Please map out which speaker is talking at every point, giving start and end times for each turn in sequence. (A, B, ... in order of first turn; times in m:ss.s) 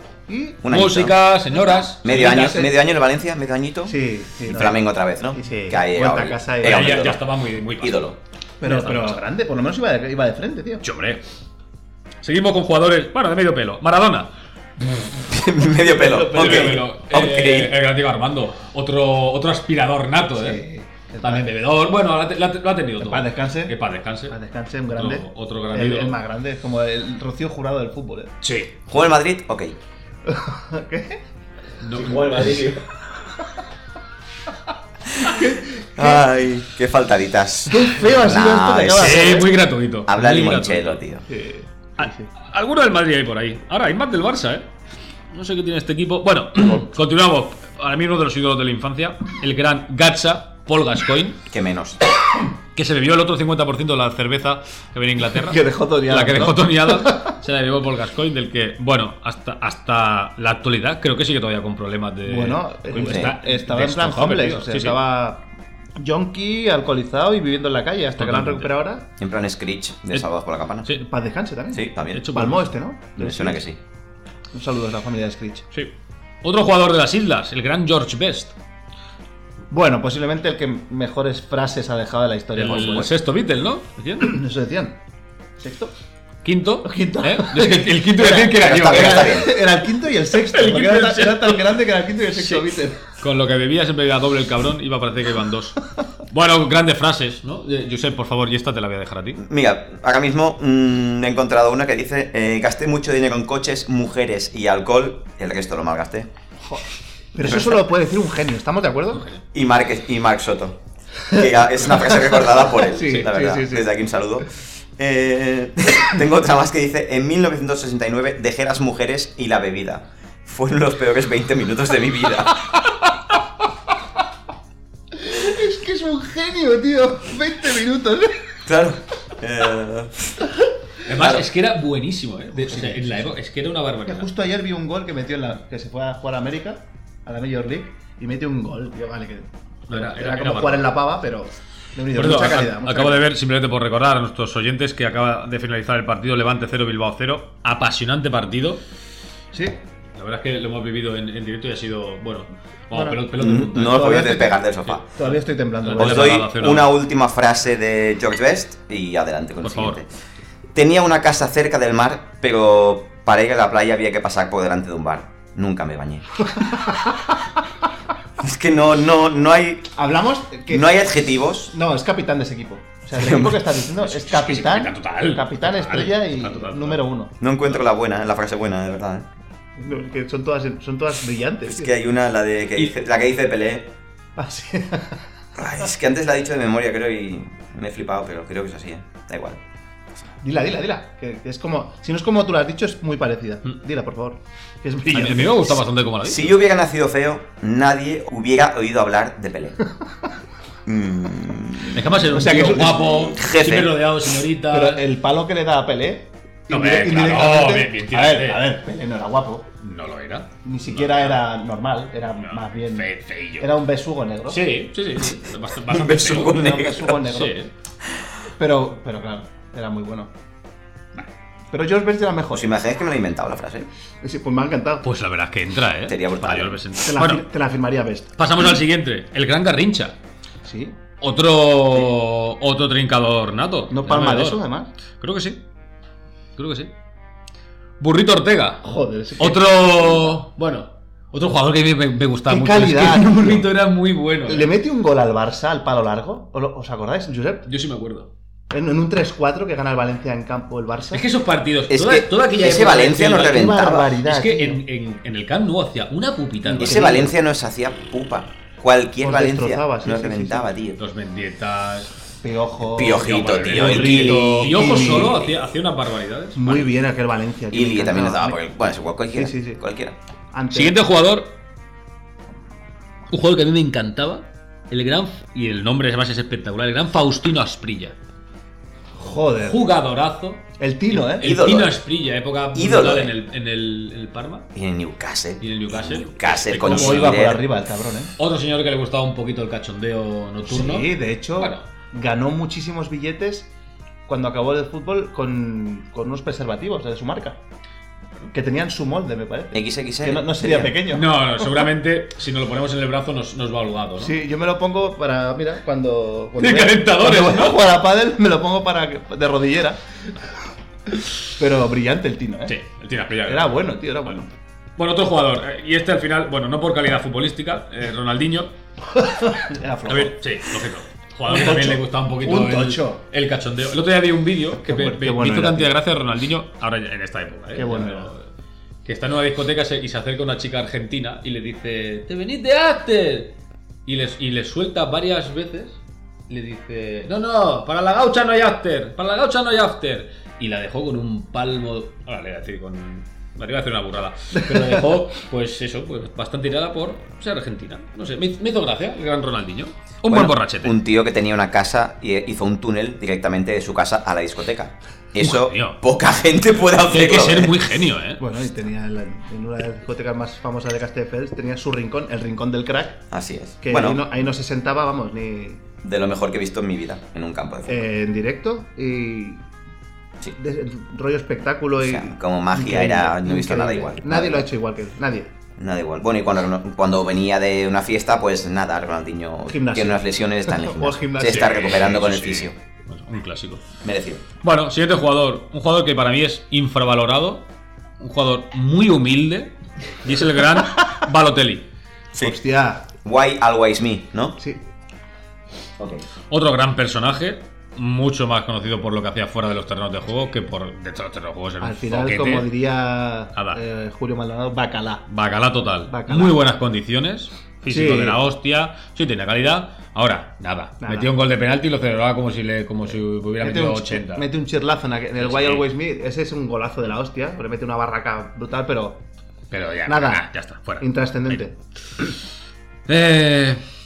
0:00.3-0:00.6 A
0:00.6-0:01.2 B
0:00.7-0:02.6 C
0:02.0-0:07.2 B
0:02.3-0:02.7 A
0:03.9-0:07.1 A
0:06.6-0:08.1 C
0:07.8-0:08.2 B
0:08.6-0:10.8 A
0:08.6-0:09.2 C
0:10.8-0:11.2 C
0:12.2-0:14.3 C
0:15.2-0:17.8 B
0:16.0-0:16.8 A
0:16.0-0:20.6 C
0:20.4-0:21.5 A
0:21.2-0:24.4 C
0:23.0-0:23.7 A
0:24.3-0:28.3 A
0:24.9-0:26.2 C
0:28.4-0:28.8 C
0:28.9-0:29.8 B
0:30.2-0:31.2 A
0:31.8-0:32.8 C
0:32.0-0:32.7 A
0:32.1-0:32.7 B
0:35.2-0:36.3 A
0:36.0-0:39.5 B
0:37.7-0:39.5 A
0:39.0-0:41.0 C
0:40.0-0:41.2 B
0:41.3-0:42.3 A
0:42.0-0:44.6 C
0:45.3-0:51.4 C
0:51.5-0:52.0 B
0:52.7-1:05.0 C
0:55.4-0:57.3 A
1:02.2-1:05.4 A
1:03.0-1:03.3 B
1:06.0-1:09.1 A
1:08.2-1:08.7 C
1:09.2-1:10.9 B
1:10.9-1:13.6 A
1:11.7-1:12.2 B
1:12.1-1:12.7 C
1:13.2-1:13.8 B
1:14.5-1:15.6 A
1:15.7-1:18.5 C
1:19.7-1:23.1 A
1:22.6-1:24.4 C
1:24.2-1:25.0 A
1:25.6-1:25.9 A
1:26.4-1:29.5 C
1:26.8-1:33.0 A
1:28.5-1:29.5 B
1:30.5-1:31.8 C
1:32.3-1:32.6 C
1:33.2-1:39.4 C
1:39.4-1:46.3 B
1:47.3-1:49.3 A
1:47.4-1:47.8 B
1:49.5-1:50.8 B
1:51.3-1:53.9 A
1:51.3-2:02.6 B
2:05.1-2:08.4 A
2:08.6-2:10.4 B
2:11.0-2:14.3 C
2:11.1-2:11.4 B
2:12.5-2:13.4 A
2:14.0-2:23.2 A
2:19.9-2:20.9 C
2:22.1-2:28.8 C
2:30.2-2:34.3 C
2:32.9-2:34.6 A
2:33.3-2:35.0 B
2:34.8-2:36.9 C
2:35.1-2:36.4 A
2:36.0-2:40.1 B
2:39.6-2:40.0 C
2:40.7-2:46.4 B
2:46.5-2:47.2 A
2:48.4-2:49.9 B
2:50.0-2:51.0 A
2:50.7-2:51.7 B
2:51.7-2:57.3 A
2:53.2-2:53.6 B
2:53.9-2:57.0 C
2:57.4-2:59.3 B
2:59.8-3:01.9 A
3:01.6-3:03.9 B
3:04.4-3:05.2 A
3:05.6-3:09.6 B
3:10.4-3:15.8 A
3:15.1-3:16.6 C
3:16.2-3:19.8 B
3:20.8-3:24.0 B
3:21.9-3:25.0 C
3:22.3-3:23.0 A
3:24.7-3:29.7 A
3:26.7-3:28.7 C
3:29.8-3:31.4 C
3:30.6-3:34.6 A
3:32.4-3:33.7 C
3:34.5-3:37.7 C
3:35.2-3:37.2 B
3:36.5-3:37.6 A
3:38.6-3:40.3 A
3:41.7-3:42.7 A
3:42.5-3:43.9 B
3:44.2-3:45.0 A
3:45.0-3:47.4 C
3:46.0-3:46.8 B
3:47.0-3:48.4 A
3:48.4-3:50.2 C
3:50.6-3:51.0 A
3:51.2-3:54.6 C
3:53.9-3:54.9 A
3:55.2-3:55.6 C
3:56.6-3:56.9 C
3:58.0-3:58.8 C
3:58.8-4:00.3 A
3:59.4-4:04.7 C
4:02.5-4:03.7 A
4:04.4-4:07.7 A
4:07.6-4:08.3 C
4:08.7-4:11.2 A
4:11.1-4:17.2 C
4:11.9-4:14.1 B
4:13.4-4:14.8 A
4:16.6-4:17.3 A
4:16.8-4:21.0 B
4:19.2-4:20.7 A
4:21.0-4:22.1 C
4:22.4-4:25.4 A
4:23.0-4:25.5 B
4:23.0-4:26.9 C
4:26.6-4:28.6 A
4:27.7-4:30.2 B
4:29.3-4:29.8 A
4:30.5-4:31.0 A
4:30.7-4:31.5 C
4:33.3-4:38.1 C
4:39.2-4:39.8 A
4:39.6-4:44.7 C
4:40.8-4:41.5 A
4:41.4-4:42.0 B
4:42.7-4:43.3 B
4:44.7-4:47.6 B
4:45.6-4:47.6 C
4:46.8-4:48.3 A
4:48.4-4:51.8 C
4:50.7-4:53.7 A
4:54.3-4:57.6 A
4:58.5-5:01.5 A
4:59.7-5:00.5 B
5:00.7-5:04.4 C
5:04.2-5:10.0 A
5:06.6-5:07.8 C
5:11.5-5:12.7 A
5:12.7-5:13.9 C
5:13.4-5:14.5 A
5:15.0-5:18.7 C
5:19.1-5:20.4 A
5:20.1-5:28.4 C
5:21.5-5:23.2 A
5:24.8-5:25.9 A
5:27.7-5:28.3 A
5:29.0-5:51.0 C
5:50.3-5:57.8 B
5:55.4-5:56.0 C
5:57.1-5:58.4 C
5:58.4-6:03.2 A
6:03.3-6:04.2 B
6:03.8-6:05.8 A
6:06.0-6:08.1 B
6:07.9-6:09.6 A
6:10.6-6:15.5 A
6:12.0-6:14.7 B
6:15.8-6:22.7 B
6:19.7-6:21.8 A
6:21.4-6:23.8 C
6:24.0-6:24.4 B
6:24.6-6:27.7 C
6:28.2-6:31.8 C
6:32.4-6:33.0 A
6:33.2-6:34.6 B
6:36.0-6:36.2 B
6:36.5-6:42.7 C
6:41.8-6:45.2 A
6:43.5-6:43.8 C
6:45.3-6:54.5 C
6:46.1-6:46.6 A
6:47.9-6:48.4 A
6:51.0-6:51.3 A
6:53.6-6:59.2 A
6:55.4-6:55.8 C
6:59.7-7:01.6 C
7:00.0-7:00.4 A
7:01.0-7:01.7 A
7:03.1-7:03.8 C